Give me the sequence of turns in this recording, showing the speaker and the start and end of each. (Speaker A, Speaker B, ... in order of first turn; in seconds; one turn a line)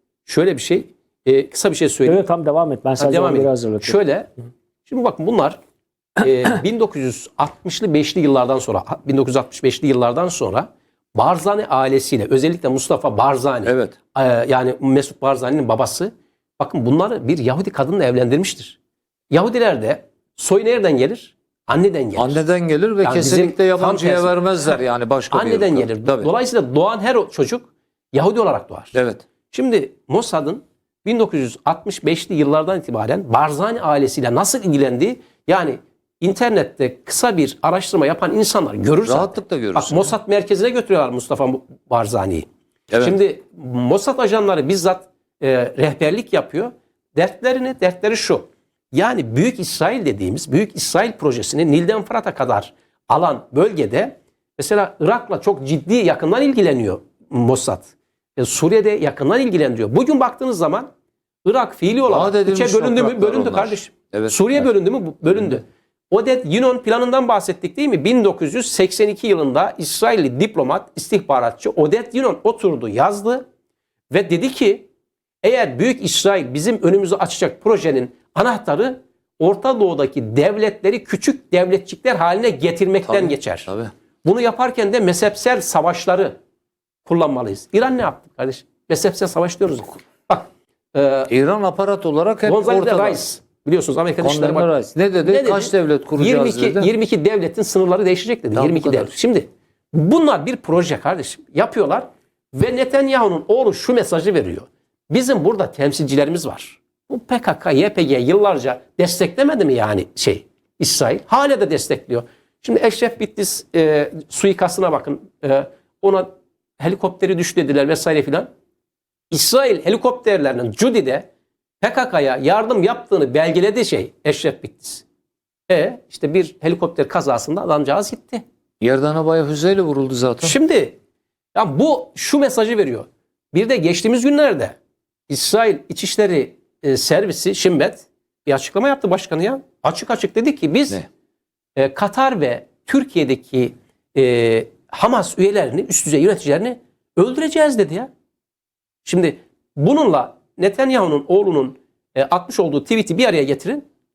Speaker A: 0.2-2.2
Speaker B: 2.0-4.0
Speaker A: 3.0-4.3
Speaker A: 4.8-5.6
Speaker A: 6.2-18.8
Speaker C: 13.6-13.9
Speaker A: 19.3-22.4
Speaker C: 22.1-26.3
Speaker A: 23.0-24.8
Speaker A: 25.3-28.9
Speaker C: 28.9-29.2
Speaker A: 29.5-60.9
Speaker C: 39.0-40.1
Speaker C: 42.9-43.1
Speaker A: 61.4-73.4
Speaker C: 62.0-64.7
Speaker A: 74.1-74.8
Speaker A: 75.4-83.7
Speaker C: 83.0-83.9
Speaker A: 84.2-86.3
Speaker A: 87.0-91.3
Speaker C: 91.3-93.2
Speaker A: 92.4-94.7
Speaker C: 94.2-96.9
Speaker A: 95.2-118.5
Speaker C: 98.5-99.1
Speaker A: 119.3-121.3
Speaker A: 121.8-125.0
Speaker A: 125.7-128.4
Speaker C: 128.8-130.5
Speaker A: 130.4-131.0
Speaker A: 131.5-134.8
Speaker A: 135.3-141.0
Speaker A: 141.8-148.1
Speaker A: 149.0-153.8